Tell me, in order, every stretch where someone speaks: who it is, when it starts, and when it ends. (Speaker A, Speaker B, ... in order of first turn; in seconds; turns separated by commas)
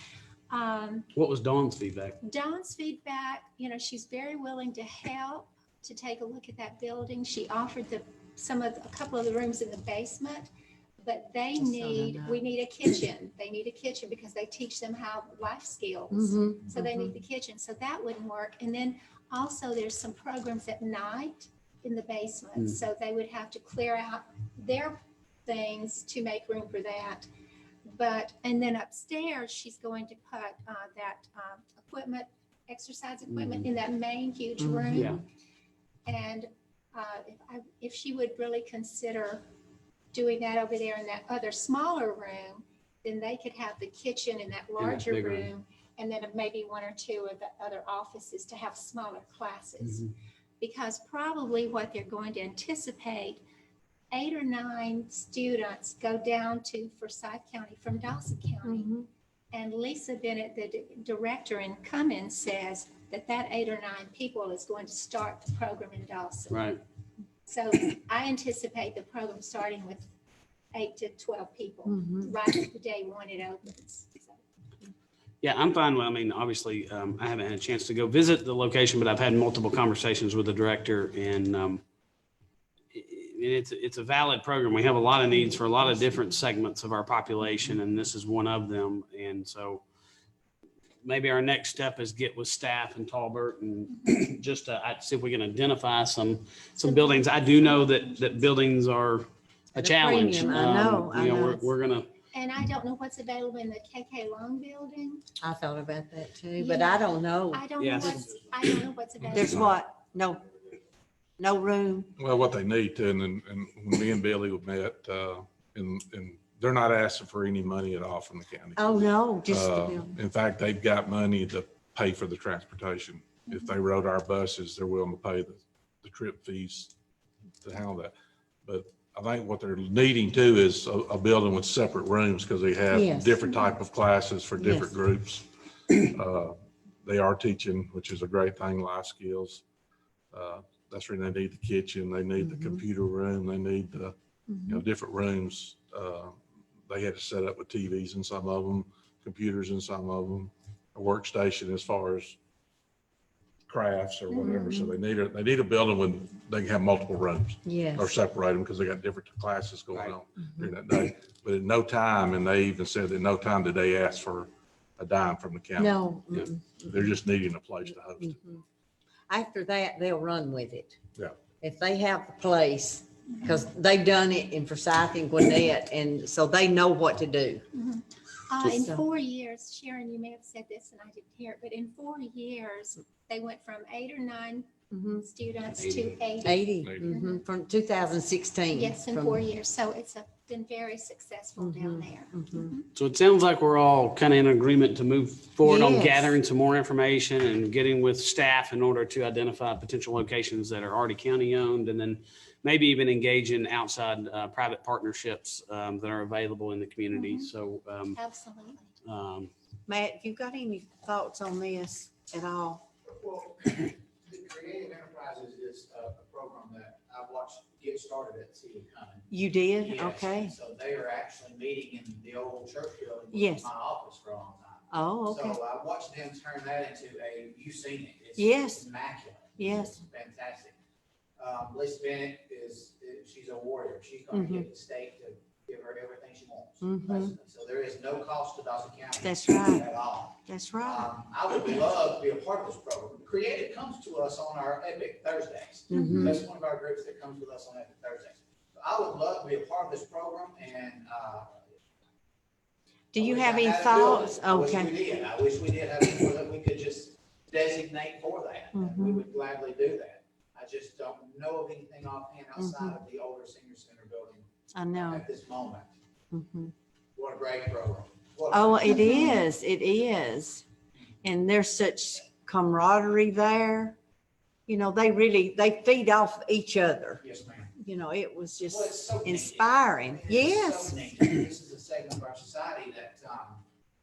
Speaker A: 0.5-1.1, Speaker B: 1.1-2.2, Speaker A: 2.2-27.3, Speaker C: 11.6-12.4, Speaker C: 16.1-17.1, Speaker A: 27.9-35.2, Speaker B: 33.3-33.6, Speaker C: 34.6-35.2, Speaker B: 35.0-35.2, Speaker A: 36.1-39.4, Speaker A: 40.1-53.4, Speaker B: 44.8-45.5, Speaker A: 54.1-59.0, Speaker C: 58.6-59.1, Speaker A: 59.5-66.7, Speaker B: 66.5-66.8, Speaker A: 67.5-70.1, Speaker A: 70.7-74.4, Speaker C: 71.9-72.3, Speaker B: 75.4-81.8, Speaker B: 82.9-89.8, Speaker B: 91.0-102.1, Speaker A: 96.8-98.5, Speaker C: 99.8-101.7, Speaker A: 102.3-105.2, Speaker C: 105.4-107.7, Speaker A: 106.6-109.8, Speaker B: 107.8-108.3, Speaker C: 109.3-110.5, Speaker C: 111.4-112.1, Speaker D: 112.2-126.9, Speaker C: 118.8-120.1, Speaker D: 127.6-128.1, Speaker D: 128.7-139.6, Speaker C: 132.9-133.4, Speaker C: 134.6-134.9, Speaker D: 140.3-144.1, Speaker C: 142.4-142.8, Speaker C: 144.5-144.8, Speaker D: 144.7-152.4, Speaker D: 153.7-165.9, Speaker A: 154.3-154.7, Speaker C: 154.4-154.9, Speaker C: 157.7-158.1, Speaker C: 165.8-167.1, Speaker D: 166.8-168.6, Speaker C: 168.2-168.5, Speaker C: 169.3-171.0, Speaker D: 171.2-171.4, Speaker C: 171.6-177.7, Speaker A: 177.7-187.4, Speaker C: 178.8-179.1, Speaker C: 184.9-185.2, Speaker C: 186.4-189.4, Speaker D: 186.8-187.2, Speaker A: 188.7-192.9, Speaker C: 191.6-192.7, Speaker B: 192.9-208.2, Speaker C: 195.6-196.4, Speaker A: 207.1-207.5, Speaker A: 208.2-208.9, Speaker B: 209.0-209.5, Speaker C: 209.9-212.8, Speaker E: 213.1-230.8, Speaker C: 219.3-220.6, Speaker C: 223.3-223.7, Speaker C: 224.9-225.6, Speaker C: 228.4-228.9, Speaker C: 229.6-230.0, Speaker E: 231.4-251.6, Speaker C: 234.3-234.7, Speaker C: 236.8-237.3, Speaker C: 239.2-239.9, Speaker C: 240.5-241.1, Speaker C: 245.9-246.4, Speaker C: 253.1-254.9, Speaker E: 253.2-265.9, Speaker C: 258.7-259.2, Speaker C: 262.6-263.0, Speaker C: 264.7-265.2, Speaker C: 266.3-266.7, Speaker E: 267.2-269.2, Speaker C: 268.5-270.6, Speaker A: 268.9-269.4, Speaker C: 271.2-274.0, Speaker C: 274.7-277.2, Speaker E: 277.2-277.7, Speaker C: 277.8-281.0, Speaker E: 278.6-283.6